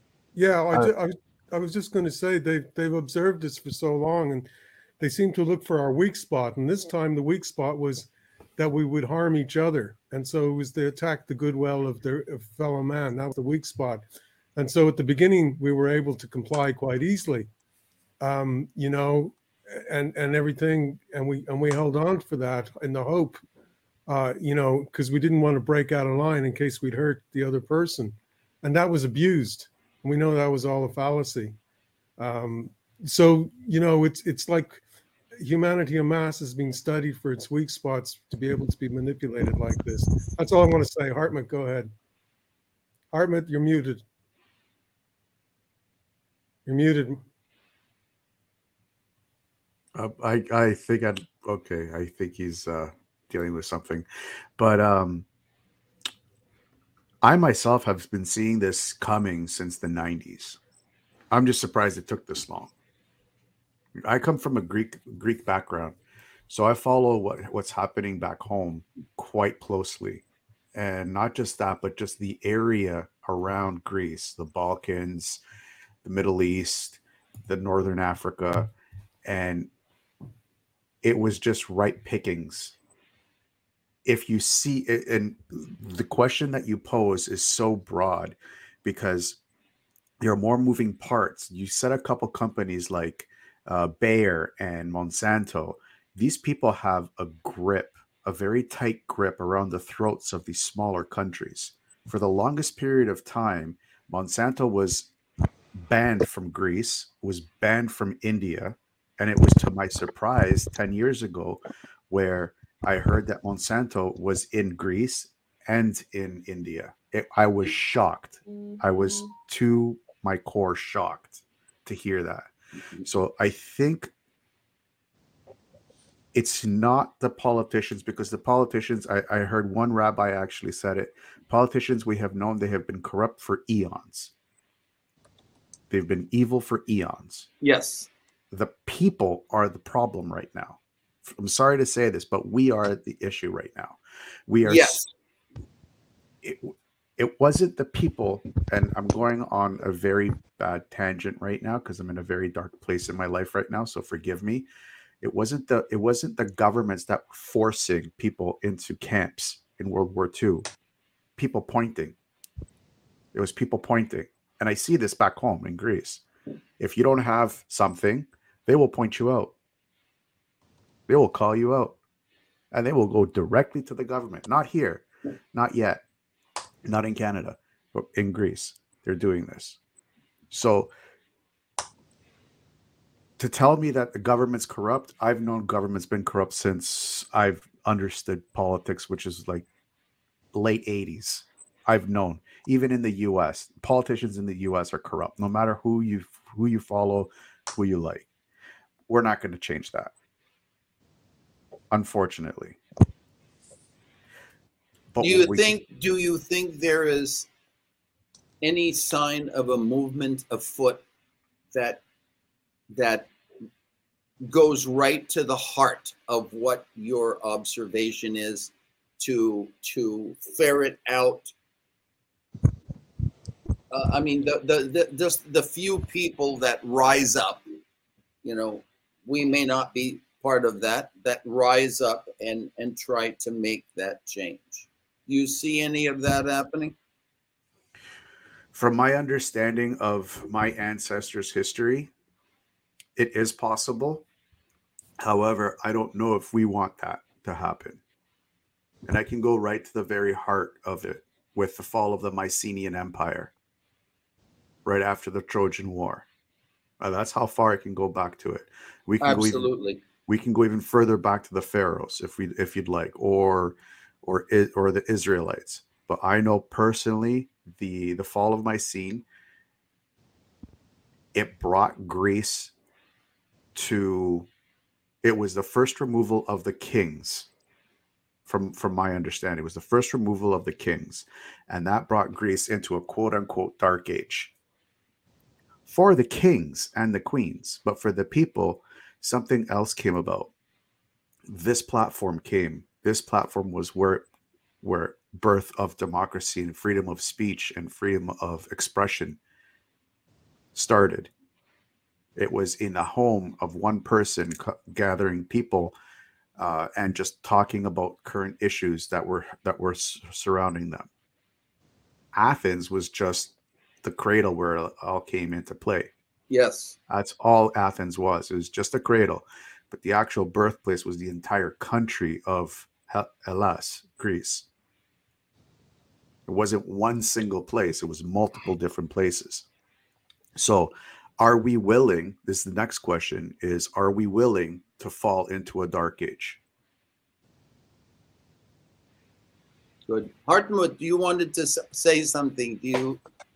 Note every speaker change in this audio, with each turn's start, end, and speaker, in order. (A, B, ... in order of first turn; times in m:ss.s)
0:00.3-0:04.5 A
0:05.0-0:14.0 A
0:14.6-0:17.5 A
0:18.2-0:23.4 A
0:24.1-0:31.6 A
0:32.2-0:34.8 A
0:35.4-0:41.9 A
0:43.1-0:44.0 A
0:46.6-0:47.2 A
0:49.9-0:54.0 B
0:54.6-0:55.2 B
0:57.2-1:00.6 B
1:01.3-1:02.7 B
1:04.0-1:06.0 B
1:06.5-1:10.2 B
1:10.7-1:15.4 B
1:16.0-1:18.7 B
1:19.2-1:19.7 B
1:21.0-1:22.8 B
1:24.0-1:29.4 B
1:30.2-1:45.1 B
1:45.8-2:02.5 B
2:03.0-2:04.1 B
2:06.3-2:14.3 B
2:15.9-2:17.5 B
2:17.6-2:18.1 C
2:18.5-2:25.1 B
2:24.6-2:25.1 C
2:26.4-2:34.7 B
2:35.2-2:40.7 B
2:41.4-2:42.2 B
2:43.3-2:46.2 B
2:46.8-2:49.5 B
2:51.1-2:52.0 B
2:52.7-2:56.0 B
2:56.8-2:59.8 B
3:00.5-3:00.9 B
3:03.4-3:09.6 B
3:10.5-3:18.3 B
3:19.1-3:20.1 B
3:21.9-3:22.8 B
3:25.1-3:25.7 B
3:25.2-3:27.5 C
3:28.6-3:31.0 C
3:31.7-3:32.0 C
3:32.9-3:33.3 C
3:34.4-3:41.5 C
3:43.9-3:47.6 C
3:48.4-3:56.9 C
3:58.7-4:02.1 B
4:03.2-4:04.2 B
4:05.2-4:08.0 B
4:09.0-4:13.5 B
4:14.8-4:16.2 B
4:17.0-4:19.7 B
4:19.2-4:20.0 C
4:20.3-4:29.2 B
4:31.3-4:32.7 B
4:33.7-4:34.5 B
4:35.2-4:37.5 B
4:38.4-4:44.5 B
4:45.9-4:50.5 B
4:51.5-4:54.2 B
4:54.8-4:59.4 B
5:00.7-5:01.3 B
5:02.4-5:05.9 B
5:06.6-5:11.1 B
5:12.3-5:16.1 B
5:16.5-5:17.0 C
5:17.1-5:24.7 B
5:26.5-5:29.6 B
5:30.6-5:36.6 B
5:40.1-5:43.2 C